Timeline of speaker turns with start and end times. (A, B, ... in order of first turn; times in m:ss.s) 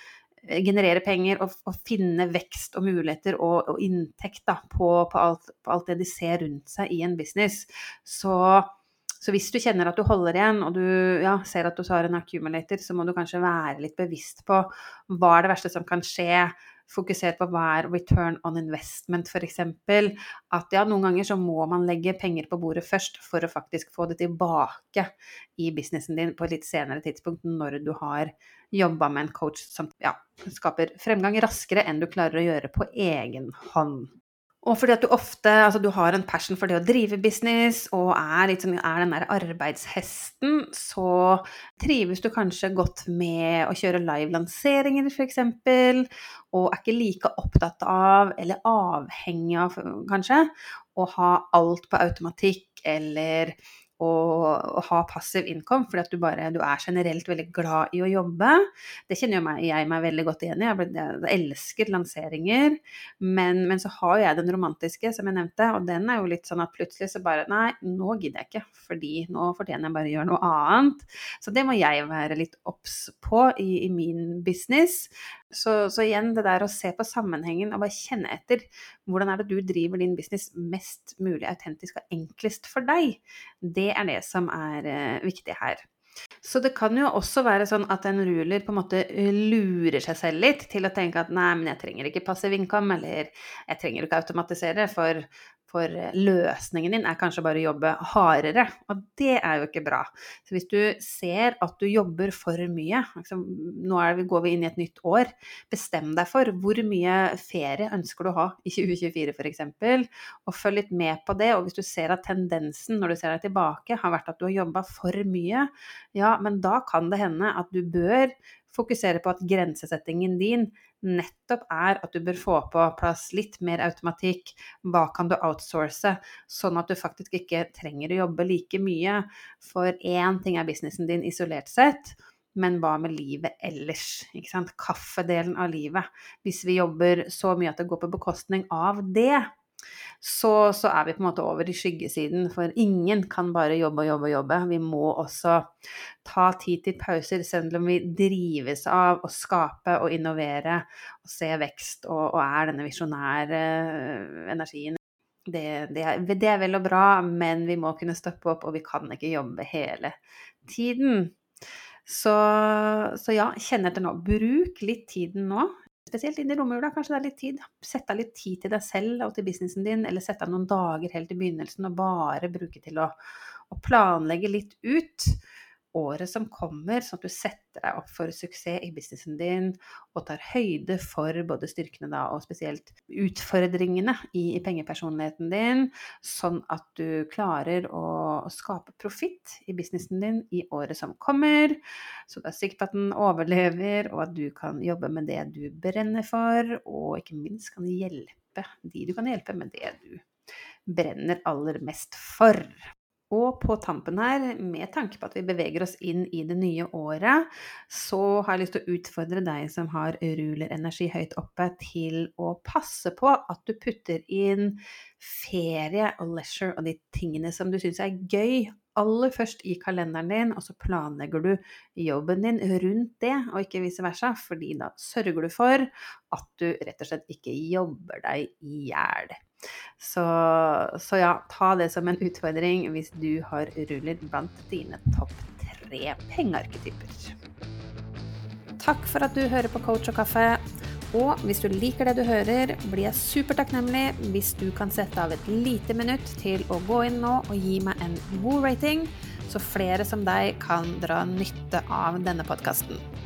0:00.4-0:34.1 A
0:34.6-1:25.8 A
1:26.4-2:19.5 A
2:20.2-2:25.7 A
2:26.2-2:41.4 A
2:42.1-2:53.2 A
2:53.7-2:55.4 A
2:55.9-3:20.2 A
3:20.9-3:49.4 A
3:50.0-3:57.3 A
3:58.8-4:13.1 A